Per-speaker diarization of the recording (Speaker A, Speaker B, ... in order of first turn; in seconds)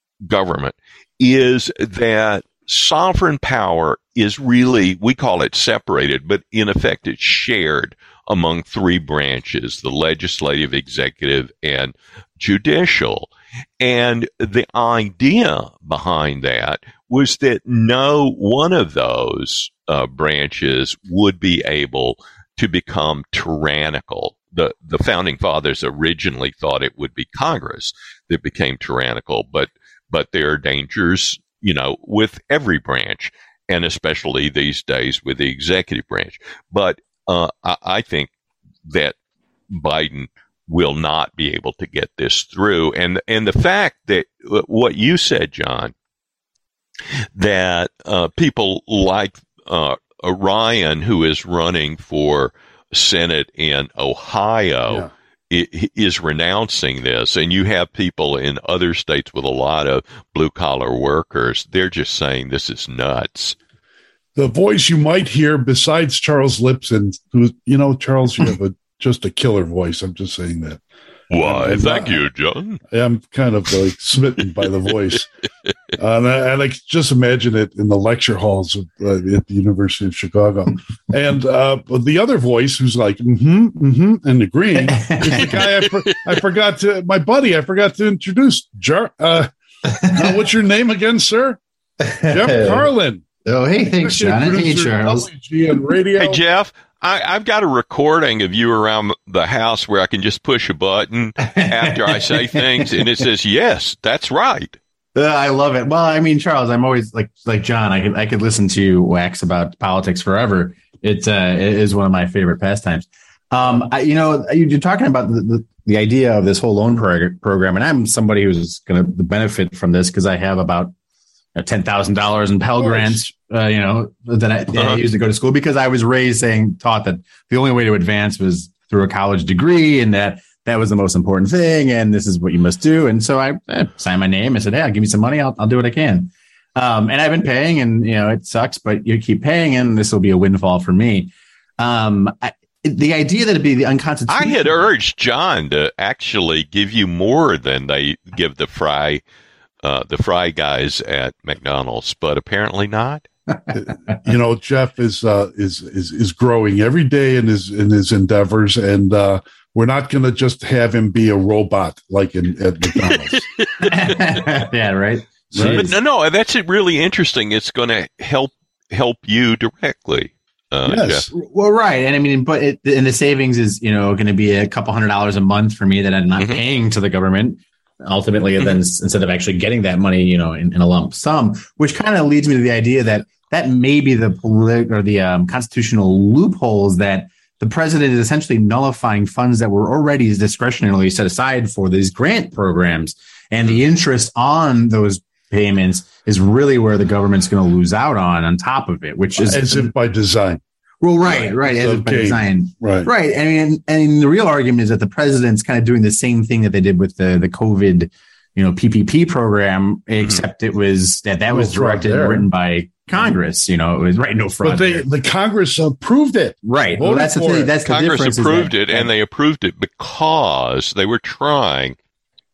Speaker A: 0.2-38.3, 38.9-39.1, 39.7-45.9, 47.3-63.5, 71.3-72.8, 85.5-85.9, 96.2-104.8, 124.7-125.0, 144.3-149.2, 149.8-153.2, 163.0-163.9, 165.7-171.3, 217.8-221.9
Speaker B: 64.3-70.8, 71.4-72.2, 72.9-75.3, 76.0-89.5, 90.1-91.6, 92.3-93.2, 94.0-96.4, 122.8-123.2, 153.7-163.5, 165.5-165.9, 170.8-171.3, 199.4-200.6, 201.2-203.1, 211.5-212.5, 214.6-217.7
Speaker C: 84.9-85.5, 92.0-92.9, 93.4-95.3, 101.4-103.0, 105.1-120.9, 121.5-144.9, 163.9-165.9, 171.3-199.9, 201.0-215.1, 216.6-219.1